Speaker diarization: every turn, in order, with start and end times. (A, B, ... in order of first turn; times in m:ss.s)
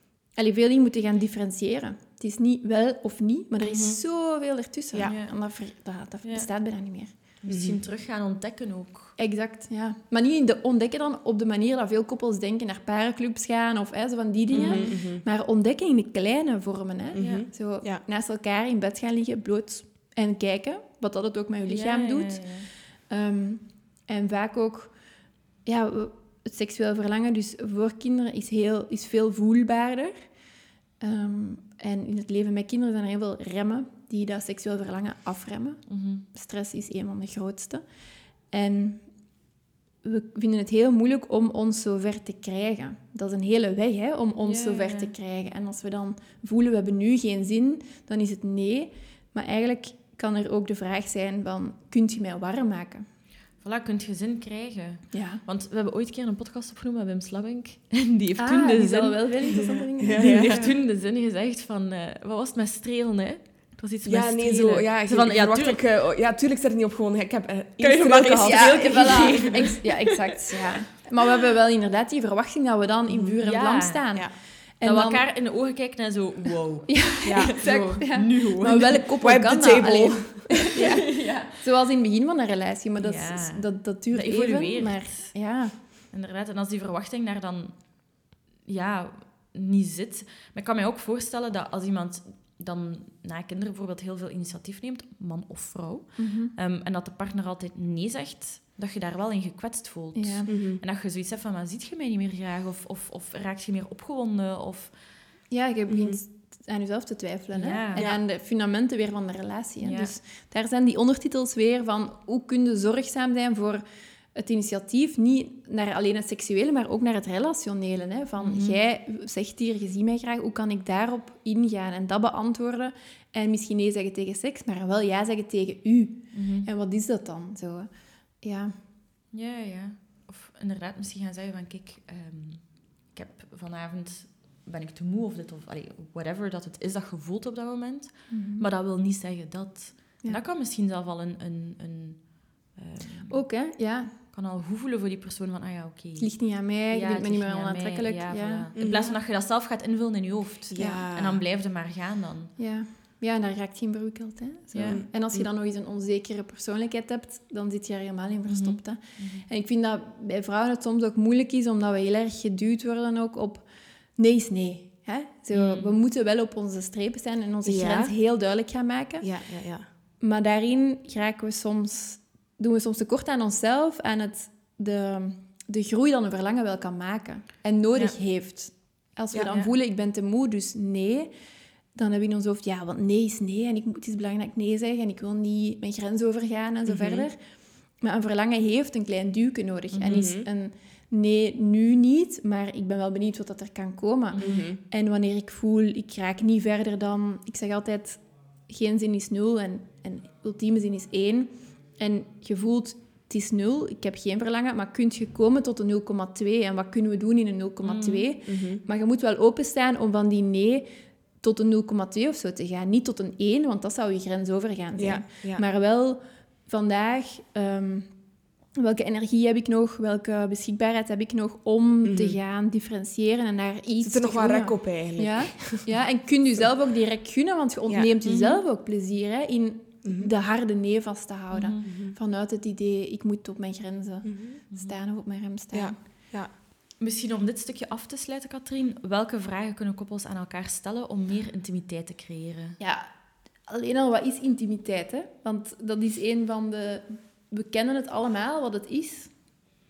0:00.3-0:07.1 A
0:03.6-0:04.0 B
0:05.0-0:05.5 B
0:06.2-0:06.5 B
0:07.4-0:09.2 B
0:07.5-0:07.8 C
0:09.2-0:25.0 A
0:14.5-0:15.2 C
0:14.5-0:14.9 B
0:17.1-0:17.4 B
0:17.1-0:18.0 C
0:21.7-0:22.7 B
0:25.6-0:30.1 A
0:31.0-0:37.8 A
0:35.9-0:36.2 B
0:38.5-0:39.0 A
0:40.0-0:53.0 A
0:44.4-0:45.1 B
0:53.6-0:59.5 B
0:55.1-0:55.4 A
0:58.4-1:00.7 A
0:59.8-1:00.7 C
1:00.1-1:05.8 B
1:04.0-1:09.7 C
1:07.8-1:10.7 B
1:08.4-1:15.2 A
1:13.1-1:13.4 C
1:13.4-1:14.0 B
1:14.8-1:19.0 B
1:16.9-1:25.8 A
1:17.2-1:18.1 C
1:19.2-1:20.7 C
1:20.7-1:21.6 B
1:23.0-1:28.0 B
1:28.6-1:45.0 B
1:36.2-1:36.5 A
1:40.1-1:40.5 A
1:40.5-1:40.8 C
1:45.5-1:53.8 A
1:45.9-1:46.2 C
1:47.5-1:48.1 B
1:47.9-1:48.2 C
1:49.8-1:50.1 B
1:54.3-2:07.9 A
1:58.4-1:58.8 B
2:06.3-2:06.7 B
2:08.4-2:08.8 A
2:09.3-2:23.4 B
2:18.3-2:18.6 A
2:23.3-2:24.1 A
2:24.2-2:32.5 B
2:26.2-2:28.7 A
2:28.8-2:29.1 C
2:30.7-2:31.4 C
2:32.6-2:49.3 A
2:34.7-2:35.0 B
2:34.8-2:35.4 C
2:38.5-2:39.5 B
2:45.5-2:46.0 B
2:47.6-2:48.1 C
2:49.2-2:49.9 C
2:50.2-3:01.3 A
3:01.9-3:07.4 A
3:06.8-3:07.3 C
3:08.0-3:30.8 A
3:09.9-3:10.3 B
3:10.0-3:10.5 C
3:14.3-3:14.6 B
3:14.4-3:14.8 C
3:27.8-3:28.3 B
3:28.4-3:28.8 C
3:31.4-3:38.1 A
3:35.0-3:35.6 C
3:38.8-3:56.0 A
3:42.0-3:42.4 C
3:44.0-3:45.9 C
3:48.2-3:48.6 B
3:50.0-3:50.3 C
3:51.5-3:52.0 B
3:51.8-3:52.1 C
3:54.2-3:54.6 C
3:54.7-3:55.0 B
3:55.7-3:56.5 C
3:57.0-4:02.8 B
4:02.8-4:03.1 A
4:03.7-4:09.3 A